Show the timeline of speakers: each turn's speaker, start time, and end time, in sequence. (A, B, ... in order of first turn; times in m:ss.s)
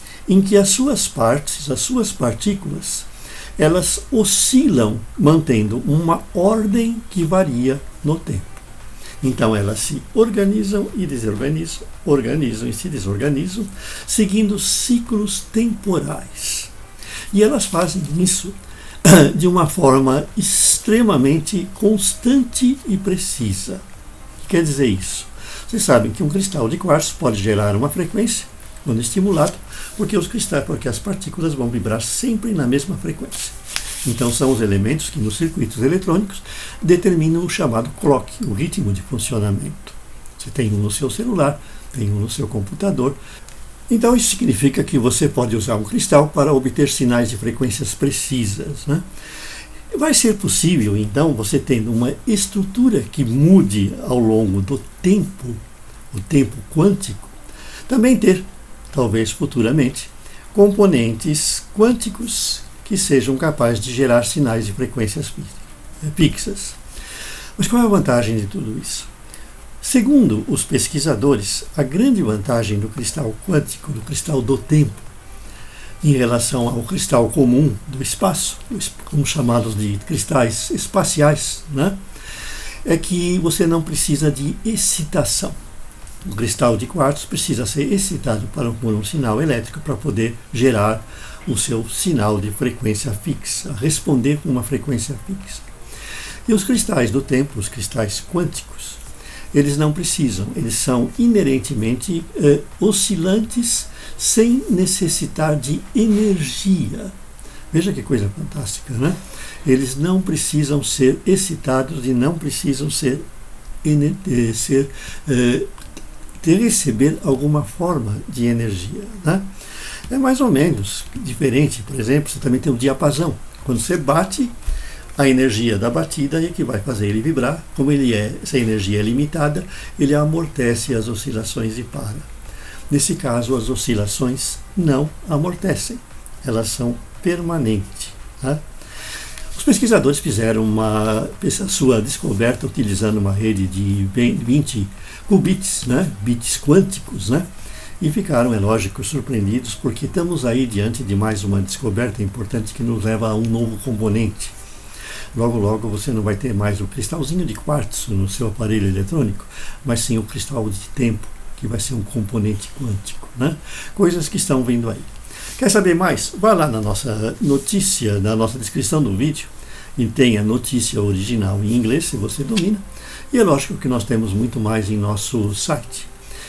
0:00.3-0:08.6 A
0:09.2-0:16.7 A
0:17.3-0:23.8 A
0:24.4-0:43.2 A
0:43.9-0:49.1 A
0:49.9-0:57.3 A
0:57.9-1:06.8 A
1:07.6-1:09.1 A
1:09.8-1:15.1 A
1:16.0-1:22.0 A
1:22.8-1:25.6 A
1:26.2-1:35.7 A
1:36.5-1:39.0 A
1:39.5-1:47.2 A
1:47.7-1:53.2 A
1:53.8-1:55.7 A
1:56.4-1:59.5 A
2:00.1-2:04.6 A
2:05.2-2:12.3 A
2:12.9-2:18.6 A
2:19.5-2:27.5 A
2:28.0-2:34.6 A
2:35.3-2:56.1 A